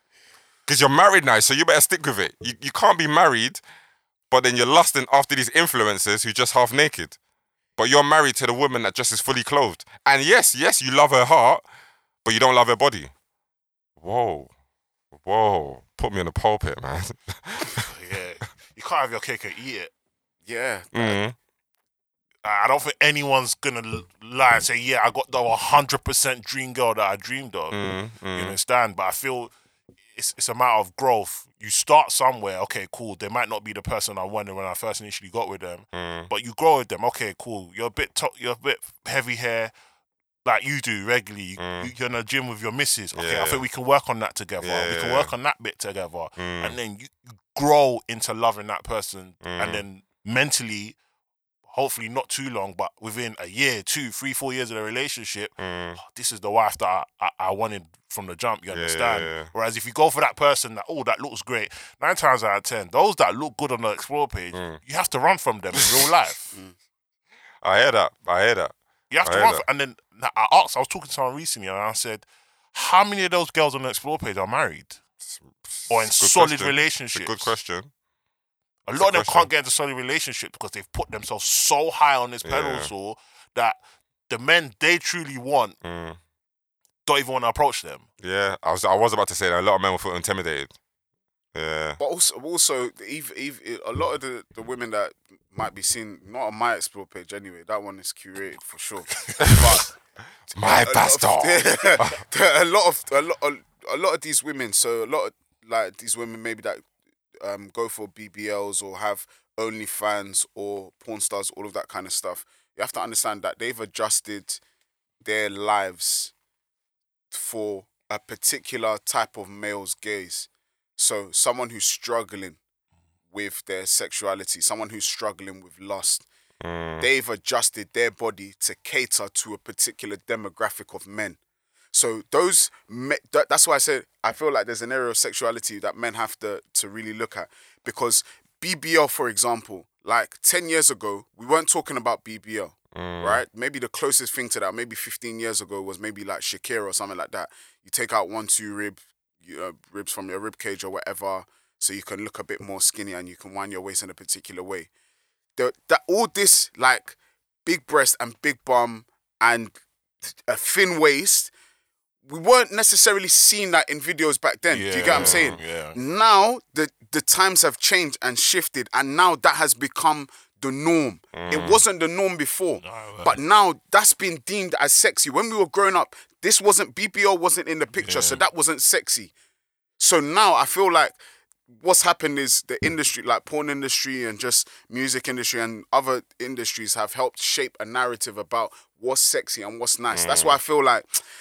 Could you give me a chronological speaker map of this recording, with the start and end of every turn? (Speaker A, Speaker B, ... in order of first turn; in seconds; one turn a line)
Speaker A: 0.7-3.6
Speaker A: 4.3-7.2
Speaker A: 7.8-11.6
Speaker A: 12.2-13.1
Speaker A: 14.0-14.5
Speaker A: 15.1-17.9
Speaker B: 17.8-19.9
Speaker C: 20.5-21.2
Speaker A: 20.9-21.4
Speaker B: 22.4-29.5
Speaker A: 27.7-28.6
Speaker B: 30.1-39.7
Speaker A: 35.9-36.3
Speaker B: 40.4-51.0
Speaker A: 41.6-41.9
Speaker A: 43.1-43.6
Speaker A: 44.6-45.3
Speaker A: 46.4-46.8
Speaker A: 49.4-49.8
Speaker B: 51.7-66.5
Speaker A: 55.6-56.0
Speaker A: 58.7-59.5
Speaker A: 65.7-66.1
Speaker A: 67.6-69.6
Speaker B: 69.1-75.0
Speaker A: 75.3-77.9
Speaker B: 75.9-77.5
Speaker B: 78.9-83.8
Speaker A: 79.0-79.5
Speaker A: 82.4-82.9
Speaker B: 84.3-85.8
Speaker A: 85.8-86.2
Speaker B: 87.0-88.0
Speaker A: 88.2-90.7
Speaker A: 91.5-92.0
Speaker C: 92.0-99.9
Speaker A: 99.4-99.8
Speaker C: 100.5-106.8
Speaker A: 100.5-102.2
Speaker C: 107.4-114.6
Speaker C: 115.2-116.3
Speaker C: 117.3-122.6
Speaker C: 123.3-126.2
Speaker A: 126.6-127.1
Speaker C: 127.0-131.4
Speaker C: 131.9-154.9
Speaker A: 142.9-143.4
Speaker C: 155.6-159.8
Speaker C: 160.3-161.5
Speaker C: 162.2-179.3
Speaker B: 164.7-165.9
Speaker A: 165.1-165.6
Speaker A: 171.3-171.8
Speaker B: 172.8-173.4
Speaker B: 178.0-178.4
Speaker C: 180.0-181.2
Speaker C: 181.8-191.2
Speaker A: 190.1-190.6